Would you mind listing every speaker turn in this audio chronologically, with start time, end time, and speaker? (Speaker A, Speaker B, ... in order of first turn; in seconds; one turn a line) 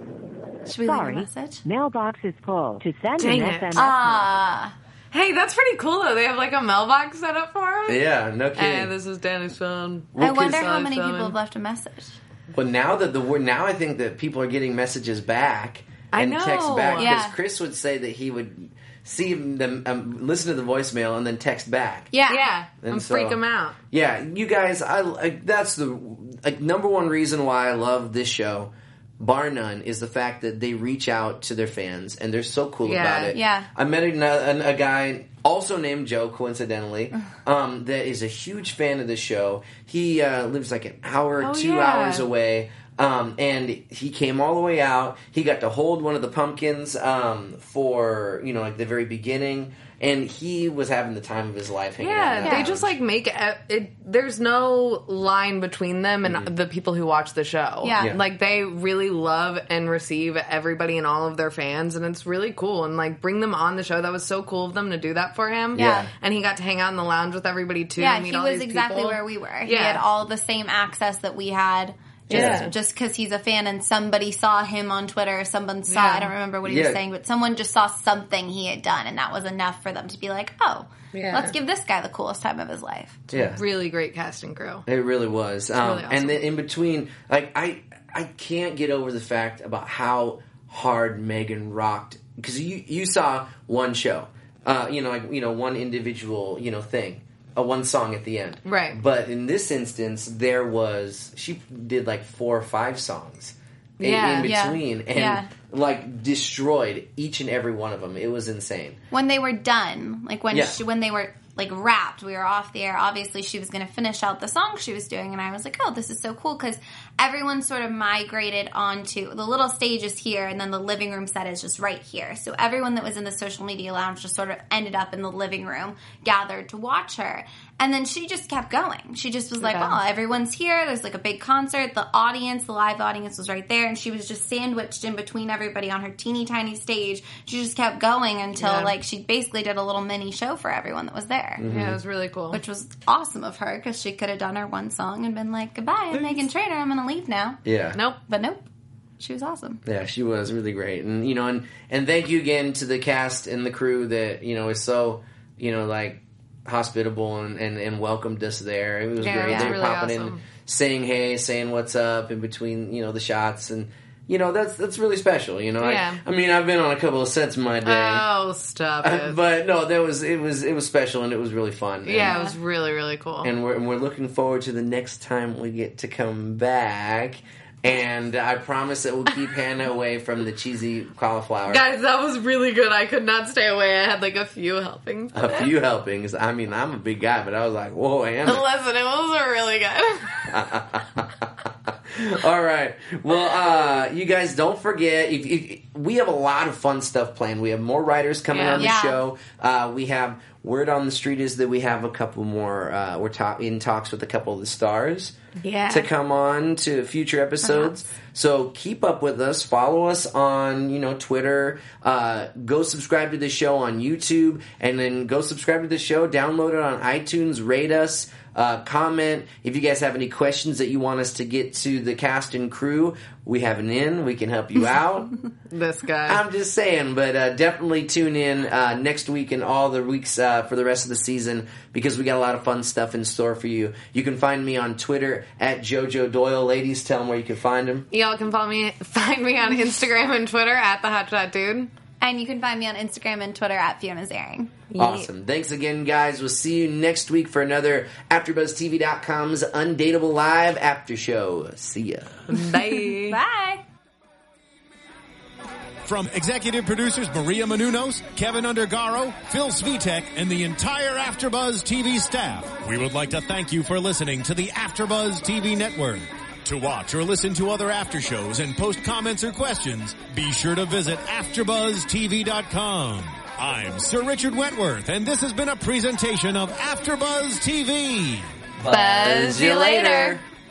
Speaker A: 0.7-1.6
Speaker B: 0.8-4.3
Speaker C: 3.2-3.7
Speaker A: 3.7-4.7
Speaker C: 5.1-11.3
Speaker D: 7.9-8.9
Speaker D: 10.1-10.7
Speaker A: 10.2-12.2
Speaker D: 12.5-22.1
Speaker C: 16.1-17.2
Speaker A: 17.0-17.3
Speaker A: 22.1-22.5
Speaker C: 22.3-23.8
Speaker D: 22.8-52.9
Speaker C: 32.8-33.4
Speaker A: 33.3-33.7
Speaker C: 41.4-42.3
Speaker C: 52.0-70.0
Speaker A: 52.4-52.7
Speaker D: 56.2-56.5
Speaker A: 57.8-58.1
Speaker D: 65.7-66.1
Speaker A: 65.8-66.1
Speaker A: 68.0-83.3
Speaker C: 72.3-72.7
Speaker D: 72.3-72.7
Speaker C: 75.9-76.3
Speaker D: 76.6-77.0
Speaker C: 81.1-81.5
Speaker D: 83.3-83.6
Speaker C: 83.3-84.8
Speaker D: 84.9-109.0
Speaker C: 85.8-86.4
Speaker C: 98.7-99.0
Speaker C: 104.0-104.5
Speaker A: 104.4-105.5
Speaker A: 109.1-141.6
Speaker D: 110.5-110.8
Speaker C: 129.6-130.0
Speaker C: 138.6-138.9
Speaker D: 141.6-142.0
Speaker C: 141.7-142.6
Speaker A: 142.5-147.6
Speaker D: 147.6-148.0
Speaker A: 148.3-148.7
Speaker A: 149.2-149.8
Speaker D: 149.8-168.2
Speaker C: 159.2-160.4
Speaker A: 159.5-159.8
Speaker C: 165.8-166.2
Speaker C: 167.8-169.4
Speaker D: 169.0-172.4
Speaker C: 172.1-173.5
Speaker A: 172.2-172.5
Speaker D: 173.4-181.8
Speaker C: 181.7-185.7
Speaker D: 185.3-188.7
Speaker C: 188.4-190.6
Speaker D: 190.5-205.3
Speaker C: 198.5-198.9
Speaker A: 198.8-199.2
Speaker C: 205.6-206.1
Speaker D: 205.9-225.3
Speaker A: 207.6-208.0
Speaker C: 225.7-226.4
Speaker D: 226.2-238.1
Speaker C: 238.1-241.9
Speaker A: 242.2-244.8
Speaker C: 244.9-245.3
Speaker D: 244.9-252.6
Speaker C: 252.5-253.4
Speaker A: 253.1-253.8
Speaker E: 256.0-278.5
Speaker D: 278.8-280.4
Speaker C: 278.9-280.4